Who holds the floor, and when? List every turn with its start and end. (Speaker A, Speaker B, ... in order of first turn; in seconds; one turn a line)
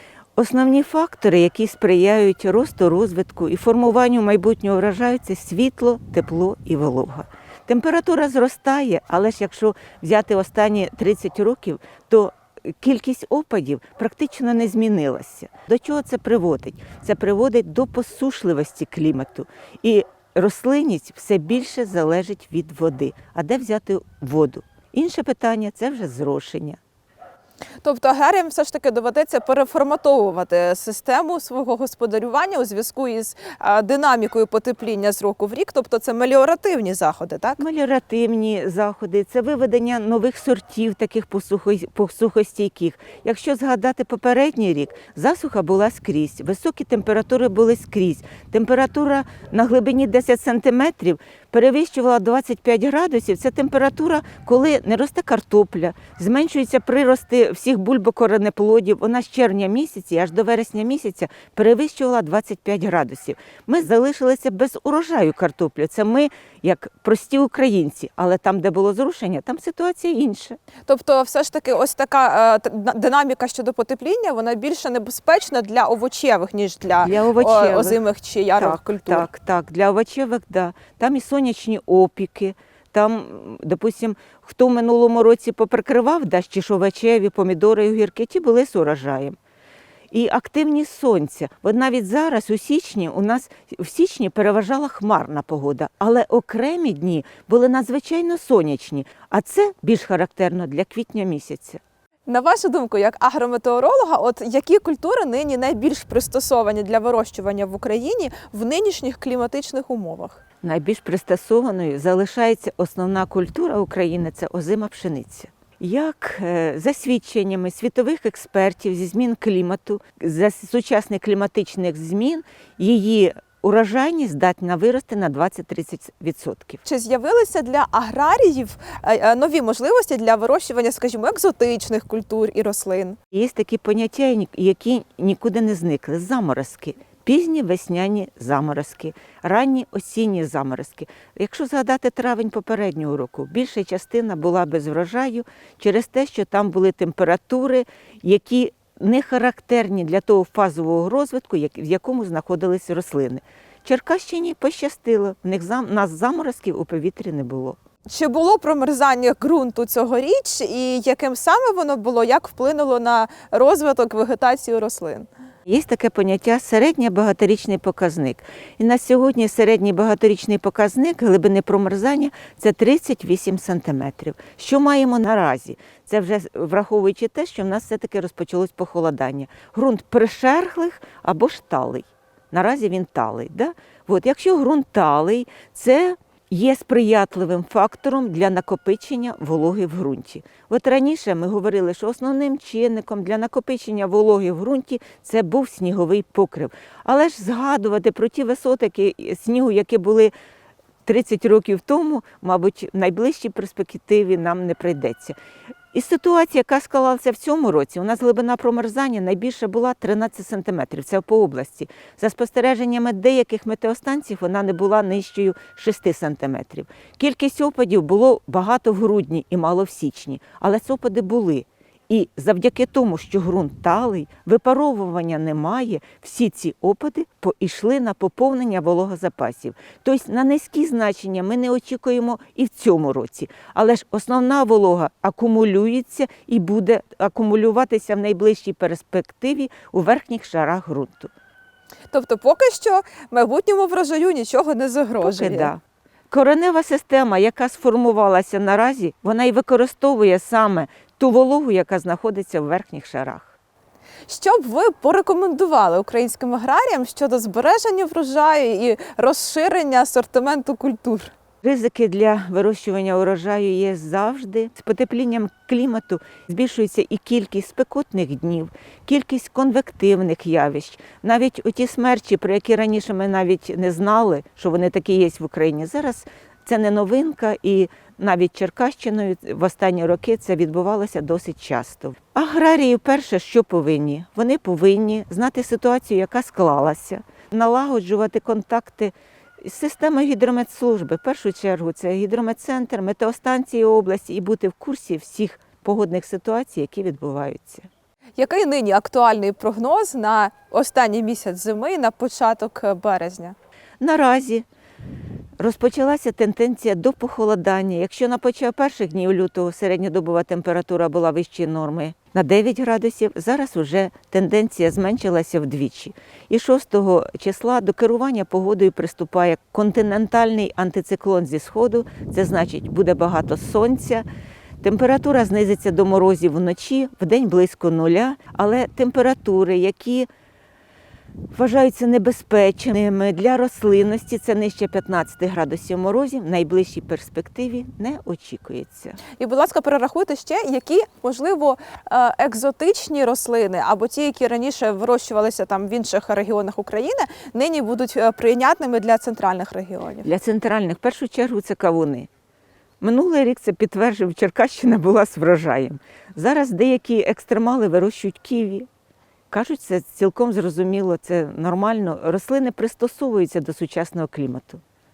Speaker A: 0.3-26.8
Speaker B: 27.8-37.6
Speaker A: 37.6-70.6
Speaker B: 70.8-79.3
Speaker A: 77.0-78.0
Speaker A: 78.5-89.4
Speaker A: 90.1-101.8
Speaker B: 102.3-110.4
Speaker A: 110.6-126.8
Speaker B: 126.8-133.2
Speaker A: 133.3-157.8
Speaker B: 158.1-165.3
Speaker A: 165.7-200.3
Speaker A: 201.0-205.4
Speaker A: 205.9-241.3
Speaker B: 242.1-245.7
Speaker A: 245.2-253.6
Speaker B: 254.3-261.3
Speaker A: 261.6-297.9
Speaker B: 298.4-303.5
Speaker A: 304.0-304.6
Speaker A: 305.6-324.2
Speaker A: 324.8-330.3
Speaker A: 331.5-339.2
Speaker B: 339.4-350.3
Speaker A: 350.2-352.3
Speaker A: 353.0-358.9
Speaker A: 359.5-364.8